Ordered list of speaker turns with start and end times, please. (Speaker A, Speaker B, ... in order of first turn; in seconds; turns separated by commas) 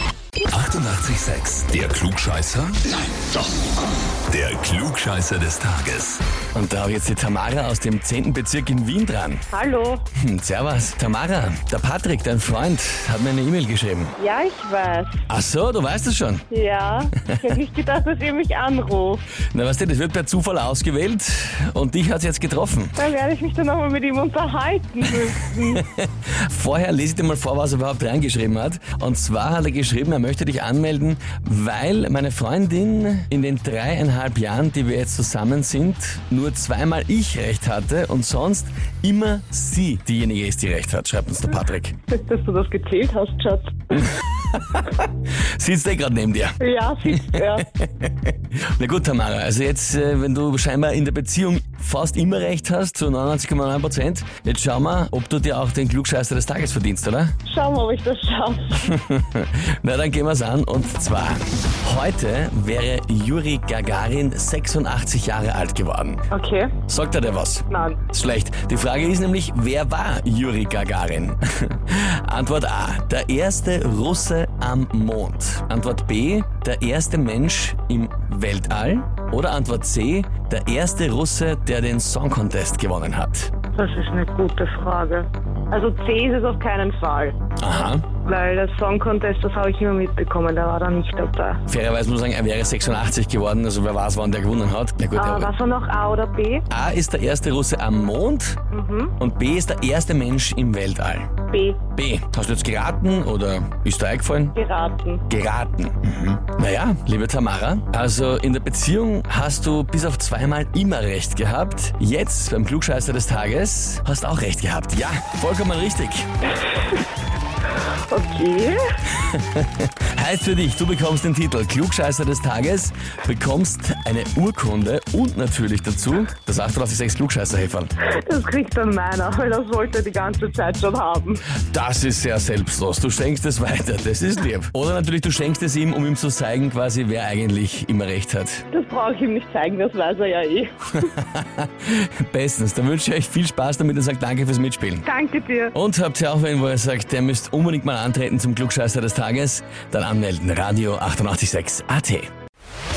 Speaker A: 0.5-2.9, Speaker A: 4.3-6.2, Speaker B: 6.5-9.4, Speaker C: 9.5-10.1, Speaker B: 10.2-14.2, Speaker C: 14.2-15.2, Speaker B: 15.3-16.5, Speaker C: 16.5-19.2, Speaker B: 19.5-23.0, Speaker C: 23.0-25.8, Speaker B: 25.7-41.9, Speaker C: 42.1-44.1, Speaker B: 44.1-46.6, Speaker C: 46.6-47.7, Speaker B: 47.2-57.3, Speaker C: 57.5-58.9, Speaker B: 58.8-66.2, Speaker C: 66.3-66.8, Speaker B: 66.9-83.5, Speaker C: 67.7-68.0, Speaker C: 83.7-87.4, Speaker B: 87.6-88.0, Speaker C: 88.2-91.6, Speaker B: 91.7-95.5, Speaker C: 95.2-96.7, Speaker B: 96.7-98.6, Speaker C: 98.7-99.1, Speaker B: 99.2-101.3, Speaker C: 101.5-101.8, Speaker B: 102.0-104.5, Speaker C: 104.5-105.2, Speaker B: 105.3-116.3, Speaker C: 117.8-118.8, Speaker B: 119.2-127.9, Speaker C: 128.1-131.4, Speaker B: 131.7-138.6, Speaker C: 138.7-141.1, Speaker B: 141.0-145.1, Speaker C: 145.0-145.8, Speaker B: 145.7-152.3